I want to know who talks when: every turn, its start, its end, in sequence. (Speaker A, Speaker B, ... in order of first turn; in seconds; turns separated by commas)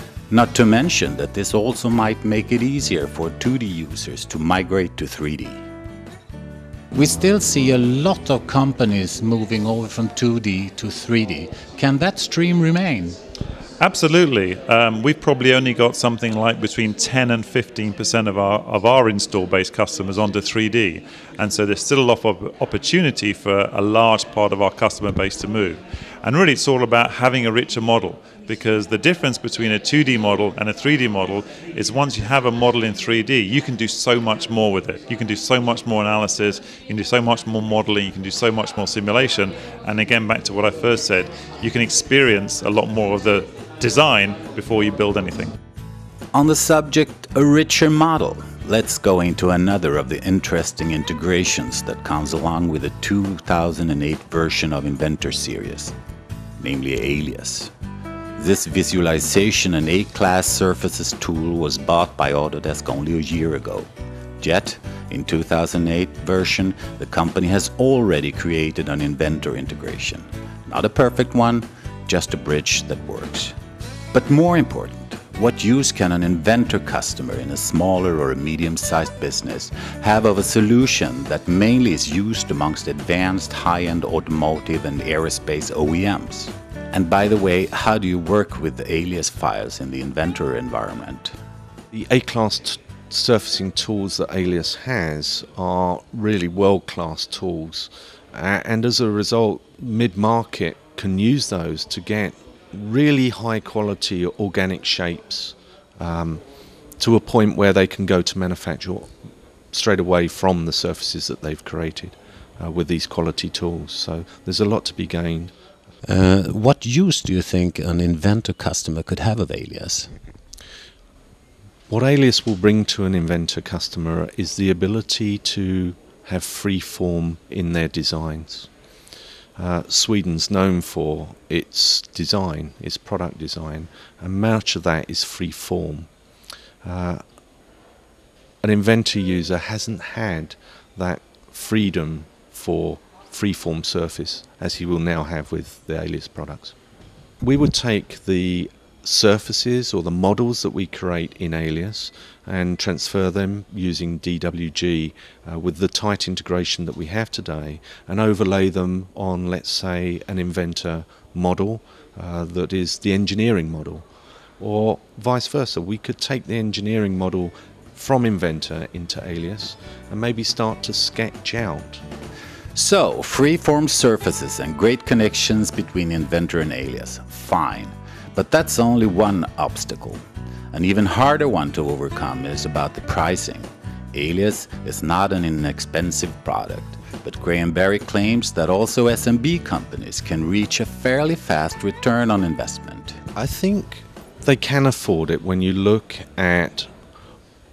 Speaker A: 0.3-5.6, Speaker B: 6.9-13.1, Speaker C: 13.8-45.5, Speaker A: 46.3-55.9, Speaker A: 56.6-57.7, Speaker A: 58.4-63.9, Speaker A: 64.4-73.5, Speaker A: 74.1-91.3, Speaker D: 91.9-106.4, Speaker D: 107.0-109.1, Speaker D: 109.7-115.5, Speaker A: 116.0-120.1, Speaker D: 121.9-128.7, Speaker D: 129.6-136.1, Speaker D: 136.8-137.2, Speaker D: 138.6-146.7, Speaker D: 147.4-164.1, Speaker D: 164.6-172.0, Speaker A: 172.7-180.2, Speaker A: 180.7-193.2, Speaker D: 193.3-196.9